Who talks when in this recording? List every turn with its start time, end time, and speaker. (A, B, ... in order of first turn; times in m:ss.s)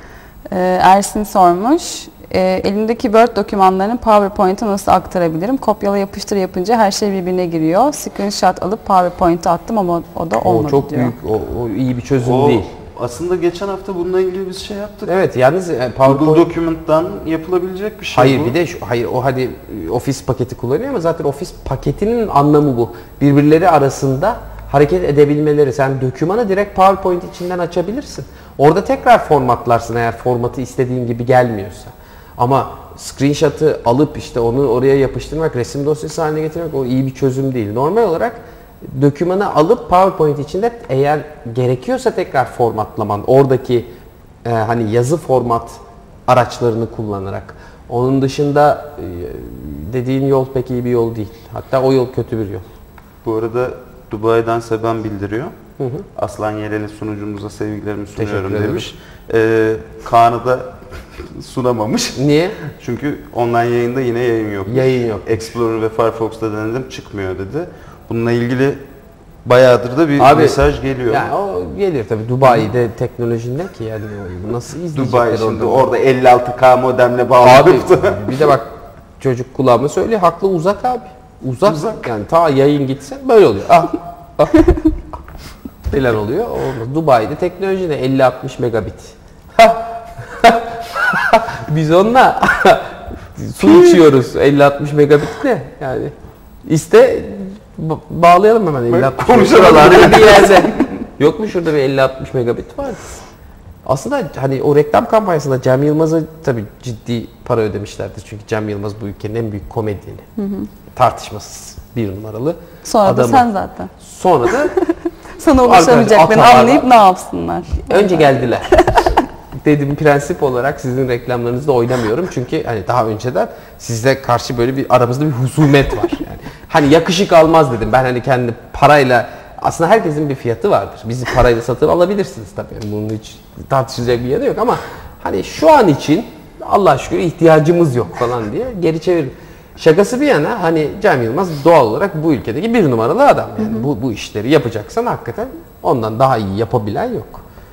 0:00.5-0:11.1 A
0:10.4-0:12.7 B
0:12.2-0:15.2 C
0:15.1-0:16.5 B
0:16.0-0:18.6 C
0:18.1-0:43.9 B
0:44.4-0:52.7 B
0:53.2-0:55.6 C
0:55.8-0:56.1 B
0:56.2-1:08.8 C
0:58.2-0:58.9 B
1:02.2-1:02.6 B
1:04.7-1:05.4 B
1:09.4-1:11.3 C
1:10.2-1:15.9 B
1:14.9-1:18.5 C
1:17.4-1:24.7 B
1:21.6-1:22.0 C
1:25.9-1:36.1 B
1:33.6-1:34.0 C
1:36.6-1:43.2 B
1:38.9-1:40.9 C
1:43.8-1:50.3 B
1:50.4-1:50.7 A
1:50.9-1:54.7 B
1:52.8-1:53.9 A
1:54.6-1:59.2 A
1:55.6-1:56.9 B
1:57.8-2:27.4 B